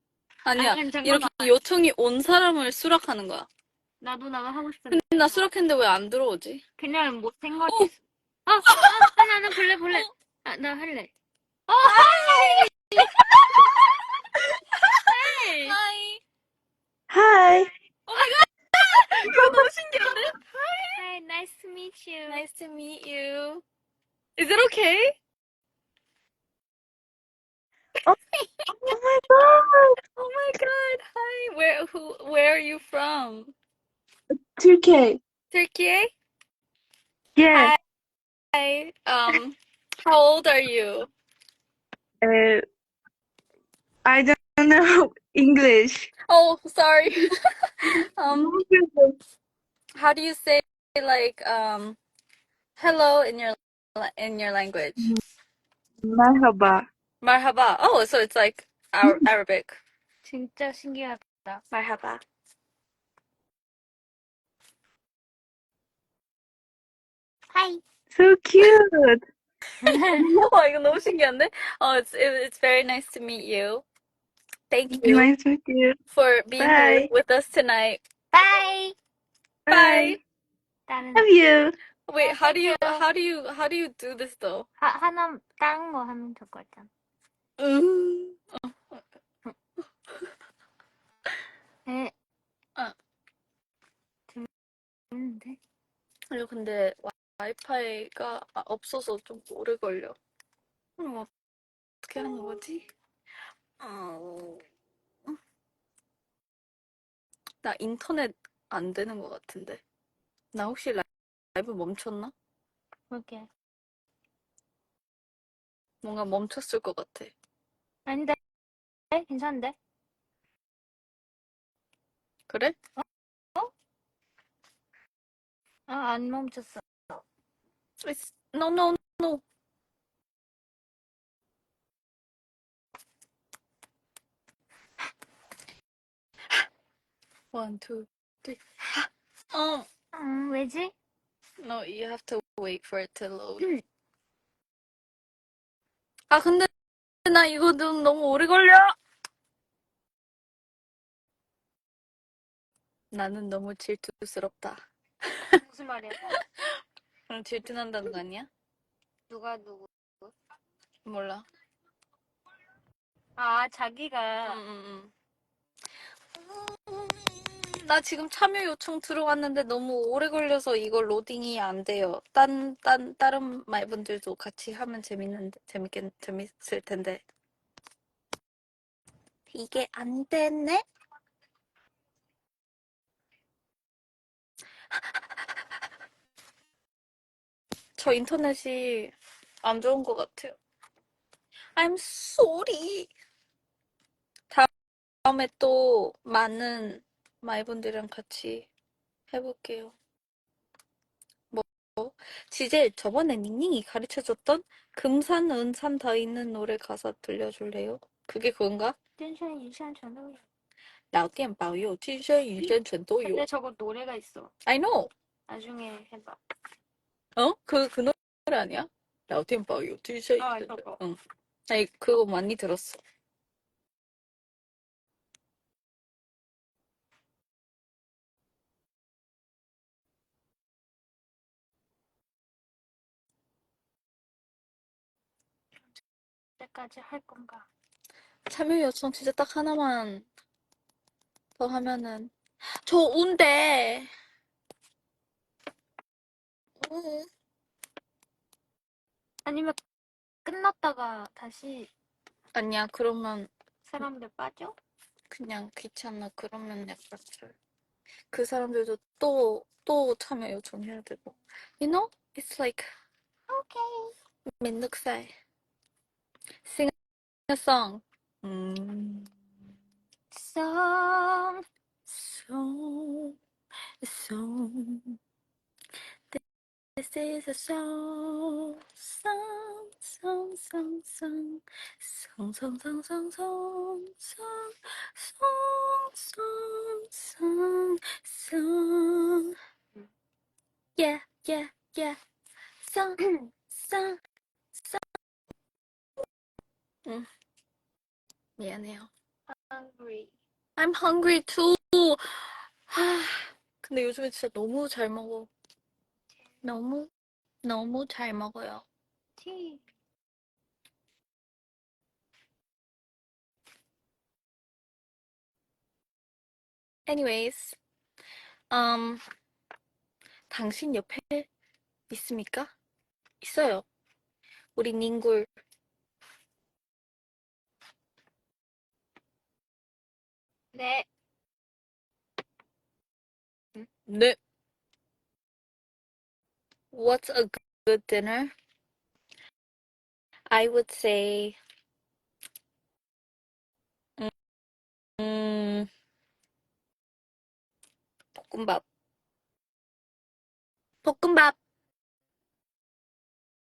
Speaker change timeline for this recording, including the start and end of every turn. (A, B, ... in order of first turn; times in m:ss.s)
0:00.5-0:03.5 A
0:00.5-0:01.5 B
0:04.0-0:05.4 B
0:04.9-0:06.6 A
0:06.8-0:11.1 B
0:07.7-0:07.9 A
0:08.7-0:09.1 A
0:11.7-0:14.0 B
0:11.8-0:13.9 A
0:14.7-0:16.2 A
0:15.0-0:15.8 B
0:17.1-0:17.7 C
0:18.1-0:21.0 A
0:21.0-0:22.4 B
0:22.3-0:23.6 A
0:24.4-0:25.2 A
0:28.8-0:30.0 C
0:30.2-0:33.5 A
0:34.6-0:35.2 C
0:35.5-0:36.1 A
0:37.4-0:37.8 C
0:37.5-0:37.8 A
0:38.5-0:41.1 A
0:42.2-0:42.6 C
0:44.0-0:46.1 C
0:46.3-0:48.6 A
0:48.3-0:49.2 C
0:50.0-0:52.0 A
0:52.8-0:55.1 A
0:56.0-0:56.9 C
0:57.2-0:59.8 A
1:00.2-1:01.6 B
1:01.7-1:02.2 A
1:07.5-1:07.8 B
1:08.1-1:09.2 C
1:09.8-1:10.2 B
1:10.0-1:10.4 C
1:10.1-1:13.8 A
1:14.7-1:15.3 A
1:15.0-1:16.0 C
1:16.1-1:18.0 A
1:16.6-1:17.1 C
1:18.3-1:19.0 B
1:19.7-1:20.2 C
1:19.7-1:20.2 A
1:20.9-1:21.3 B
1:21.2-1:21.8 C
1:22.1-1:24.7 A
1:22.2-1:23.1 B
1:24.8-1:26.9 B
1:27.6-1:29.0 A
1:31.9-1:32.1 B
1:35.1-1:35.6 B
1:36.3-1:40.2 A
1:41.0-1:41.3 A
1:42.0-1:42.9 A
1:43.8-1:44.6 A
1:47.6-1:49.8 A
1:50.5-1:52.3 A
1:53.1-1:53.5 B
1:56.0-1:57.3 A
1:58.1-1:58.4 B
1:59.1-1:59.8 B
2:02.5-2:02.8 A
2:05.9-2:07.2 B
2:08.0-2:09.4 A
2:17.5-2:19.9 A
2:20.1-2:20.9 B
2:21.6-2:23.7 A
2:26.3-2:26.7 A
2:27.2-2:28.9 A
2:33.1-2:35.6 A
2:35.6-2:36.4 B
2:36.3-2:36.7 A
2:37.3-2:38.5 A
2:39.3-2:40.3 B
2:41.0-2:41.4 A
2:43.4-2:44.6 B
2:44.4-2:45.1 A
2:46.4-2:57.2 A
2:59.5-3:00.8 A
3:08.0-3:10.6 A
3:11.8-3:13.1 A
3:15.2-3:18.7 A
3:19.3-3:20.0 A
3:21.5-3:29.0 A
3:29.2-3:30.4 B
3:31.1-3:33.5 A
3:32.6-3:34.5 B
3:34.7-3:35.1 A
3:35.5-3:36.4 B
3:37.4-3:43.0 A
3:40.4-3:41.0 B
3:56.6-3:57.7 B
3:58.5-4:00.3 A
4:01.6-4:04.1 A
4:06.8-4:07.3 A
4:09.5-4:09.8 B
4:10.4-4:11.9 B
4:12.5-4:13.5 A
4:13.8-4:14.8 B
4:15.3-4:17.6 A
4:18.3-4:22.9 A
4:23.5-4:24.1 B
4:24.6-4:25.3 A
4:26.6-4:26.9 A
4:27.5-4:29.3 A
4:30.3-4:31.6 B
4:32.1-4:33.4 A
4:34.0-4:35.2 A
4:37.0-4:49.6 A
4:51.0-4:52.2 A
4:52.8-4:54.2 A
4:53.2-4:53.5 B
4:54.8-4:55.0 A
4:58.6-4:59.1 A
4:59.5-5:00.3 B
5:00.8-5:05.5 A
5:06.6-5:07.1 A
5:07.6-5:08.8 A
5:09.4-5:09.8 B
5:17.1-5:17.8 A
5:18.7-5:19.2 A
5:20.5-5:21.5 A
5:22.1-5:22.7 A
5:23.4-5:23.8 A
5:24.8-5:25.5 A
5:30.7-5:31.1 B
5:34.1-5:34.4 A
5:36.9-5:38.5 A
5:40.5-5:41.6 A
5:45.2-5:45.9 A
5:48.4-5:48.8 A
5:51.0-5:51.6 A